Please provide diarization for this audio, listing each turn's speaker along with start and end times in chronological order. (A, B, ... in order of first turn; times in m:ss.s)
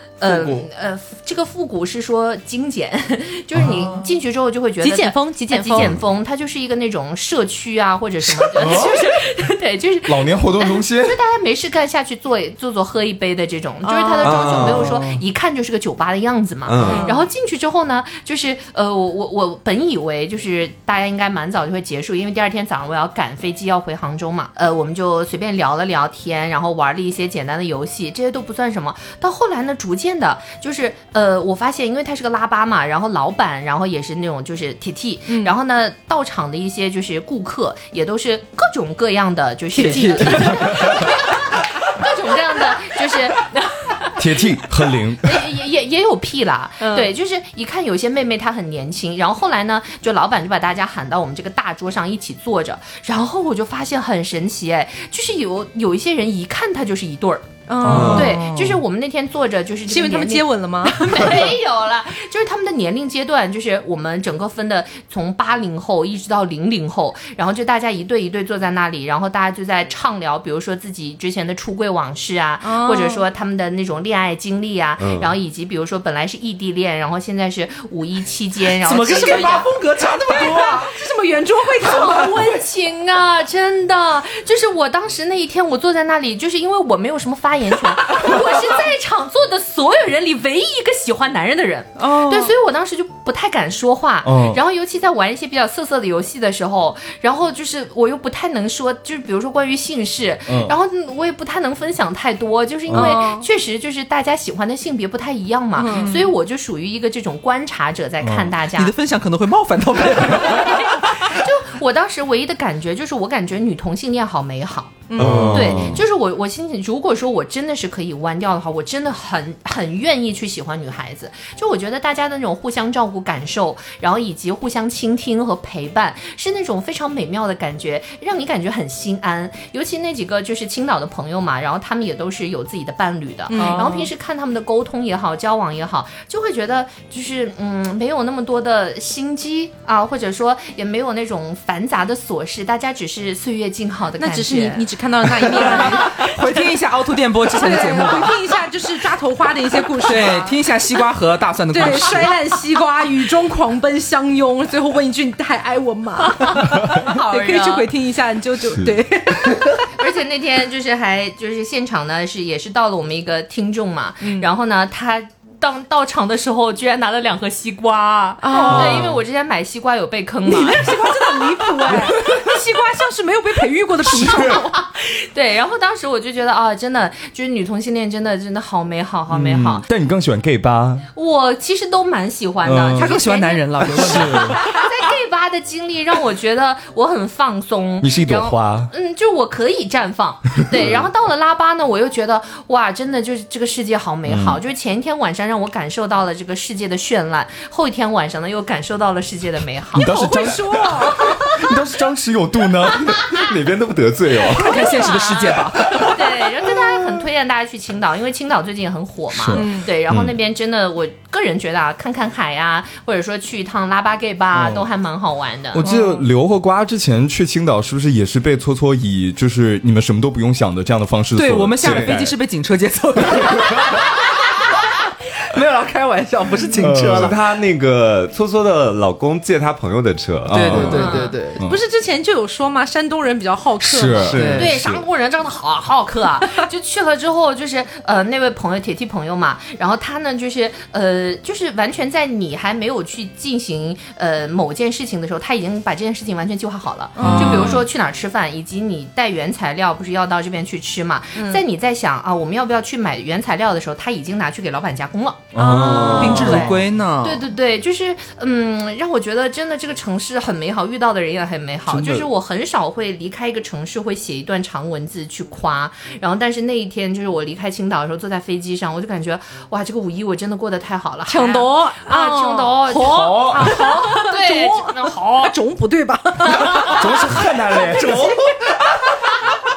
0:00.2-0:44.2 A
0:00.2-0:00.7 B
0:04.8-0:06.0 C
0:08.6-0:09.0 D
0:08.6-0:09.1 C
0:10.1-0:11.2 D
0:13.8-0:14.6 C
0:14.2-0:15.0 E
0:14.8-0:15.1 B
0:16.7-0:17.1 E
0:16.8-0:17.2 C
0:35.3-0:35.5 C
0:39.7-0:40.8 B
0:40.4-0:41.1 D
0:44.2-0:45.4 D
0:45.2-1:19.7 A
0:46.8-0:47.1 C
0:57.7-0:58.4 C
0:57.8-0:58.8 B
0:57.9-0:58.3 E
0:59.9-1:01.5 C
1:12.6-1:13.2 C
1:15.0-1:15.3 E
1:18.8-1:21.0 B
1:19.0-1:19.7 C
1:20.2-1:22.6 C
1:21.8-1:48.9 A
1:22.0-1:22.3 B
1:32.1-1:32.5 B
1:34.2-1:34.6 D
1:40.5-1:40.8 D
1:42.9-1:43.2 D
1:42.9-1:43.5 C
1:45.8-1:46.2 C
1:45.9-1:46.3 B
1:48.2-1:48.6 D
1:48.8-1:51.3 B
1:50.3-2:24.9 A
1:55.1-1:55.5 B
1:55.2-1:56.0 E
1:55.2-1:56.0 D
2:13.5-2:14.1 C
2:13.6-2:14.1 B
2:24.2-2:26.6 C
2:25.4-2:28.4 B
2:25.5-2:26.0 A
2:27.6-2:30.5 C
2:30.0-2:32.3 B
2:31.7-2:39.8 C
2:36.3-2:37.9 A
2:40.0-2:50.9 A
2:44.2-2:44.5 C
2:48.4-2:49.1 C
2:48.7-2:49.1 E
2:50.5-2:54.8 C
2:54.1-2:54.5 D
2:54.5-2:59.9 A
2:59.3-3:01.1 D
3:01.1-3:20.5 A
3:02.6-3:03.1 D
3:03.0-3:04.8 B
3:03.2-3:03.6 C
3:03.8-3:04.6 D
3:08.0-3:08.9 D
3:14.3-3:14.6 E
3:19.9-3:23.4 D
3:20.0-3:21.4 C
3:23.1-3:24.8 E
3:24.5-3:26.1 B
3:24.5-3:35.8 A
3:25.9-3:26.9 D
3:29.3-3:29.7 D
3:29.6-3:29.9 C
3:30.1-3:30.4 E
3:34.6-3:34.8 D
3:35.7-3:42.4 D
3:41.4-3:47.4 B
3:41.8-3:42.2 E
3:43.3-3:43.8 D
3:46.8-3:47.4 D
3:47.1-3:51.2 E
3:50.5-3:51.0 D
3:50.5-3:51.6 B
3:50.7-3:54.4 C
3:50.8-3:51.3 A
3:53.8-3:54.7 D
3:54.3-3:55.0 E
3:54.4-3:54.8 B
3:54.4-4:35.5 A
4:07.2-4:07.8 C
4:07.2-4:07.8 B
4:07.2-4:07.7 D
4:11.4-4:11.6 C
4:15.5-4:16.7 D
4:15.6-4:16.7 C
4:15.6-4:16.5 E
4:16.2-4:17.4 B
4:31.3-4:37.4 C
4:33.0-4:33.8 D
4:36.8-4:38.4 D
4:37.9-4:38.5 B